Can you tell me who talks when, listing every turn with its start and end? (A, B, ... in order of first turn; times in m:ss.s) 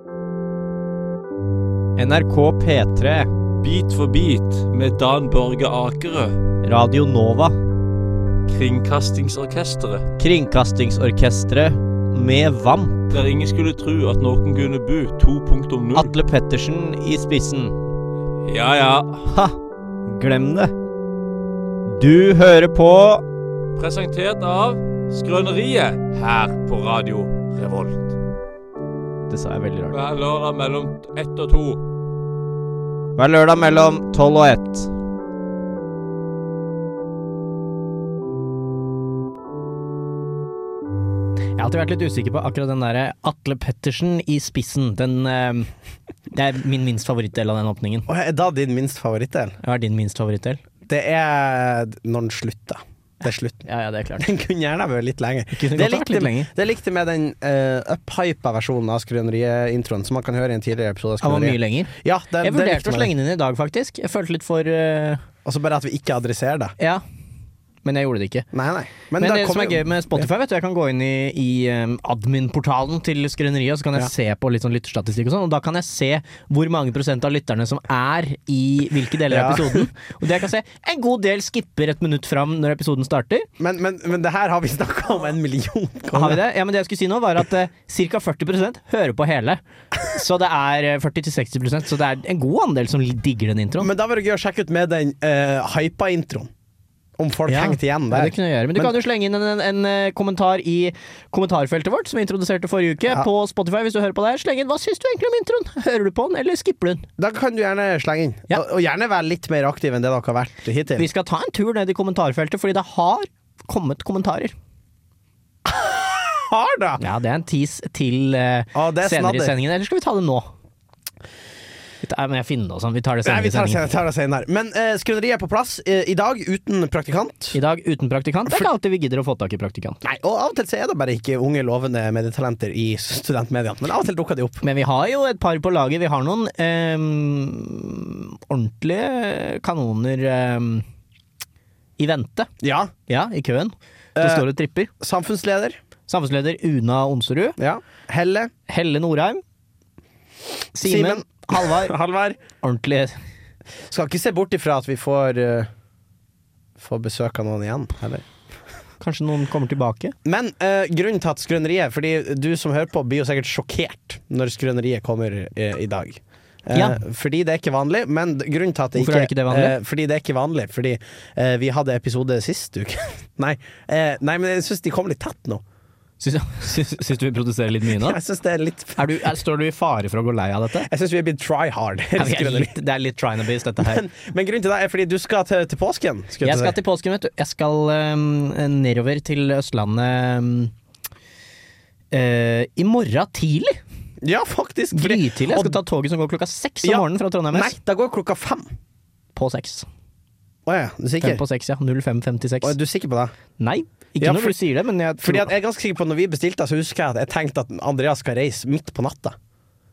0:02.0-0:03.3 A
0:03.6-0:06.4 B
0:06.6-0:07.6 A
0:08.5-0:10.1 B
0:10.2-0:13.1 A
0:13.1-0:16.1 B
0:15.9-0:17.8 A
0:18.4-0:19.2 B
0:19.3-0:19.5 A
0:20.1-0:20.7 A
0:21.9-0:23.2 A
0:23.8-0:28.1 B
0:29.3-0:30.0 A
0:29.9-0:31.8 B
0:33.2-0:34.9 A
0:41.6-0:45.7 A
0:46.3-0:48.1 A
0:48.1-0:49.6 C
0:49.6-0:50.6 A
0:50.8-0:53.6 C
0:53.6-0:54.3 A
0:54.2-1:03.1 C
0:55.5-0:56.5 A
1:01.2-1:05.2 A
1:05.4-1:06.7 C
1:07.8-1:08.5 A
1:08.5-1:10.3 C
1:09.2-1:23.5 A
1:19.3-1:19.9 C
1:23.6-1:26.4 C
1:26.1-1:33.9 A
1:33.8-1:36.5 C
1:37.2-1:38.9 C
1:37.5-1:47.0 A
1:47.2-1:51.1 C
1:51.0-1:54.5 A
1:55.6-1:57.0 C
1:57.0-2:00.5 A
1:58.7-1:59.6 C
2:02.0-2:03.8 A
2:03.2-2:07.6 C
2:07.5-2:10.0 A
2:10.0-2:14.6 C
2:14.6-2:20.8 A
2:22.0-2:22.5 A
2:22.6-2:22.9 C
2:23.1-2:24.9 A
2:24.2-2:24.5 C
2:25.0-2:25.8 C
2:26.1-2:27.6 A
2:27.6-2:28.5 C
2:28.7-2:29.4 A
2:30.7-2:31.9 A
2:30.8-2:32.4 C
2:32.6-2:33.2 A
2:33.9-2:35.7 C
2:36.8-2:38.3 C
2:39.0-2:40.1 A
2:40.2-2:55.6 C
2:46.7-2:47.0 A
2:49.0-2:49.7 A
2:56.2-2:58.2 A
2:57.9-2:59.2 C
2:59.0-3:00.9 A
3:00.8-3:02.8 C
3:02.2-3:04.0 A
3:03.8-3:06.8 C
3:06.4-3:10.7 A
3:12.1-3:13.8 A
3:14.2-3:15.8 C
3:14.9-3:17.7 A
3:16.8-3:18.7 C
3:19.3-3:19.8 A
3:20.6-3:21.4 C
3:21.2-3:22.8 A
3:22.6-3:23.3 C
3:23.6-3:25.5 A
3:24.2-3:24.6 C
3:25.2-3:29.3 C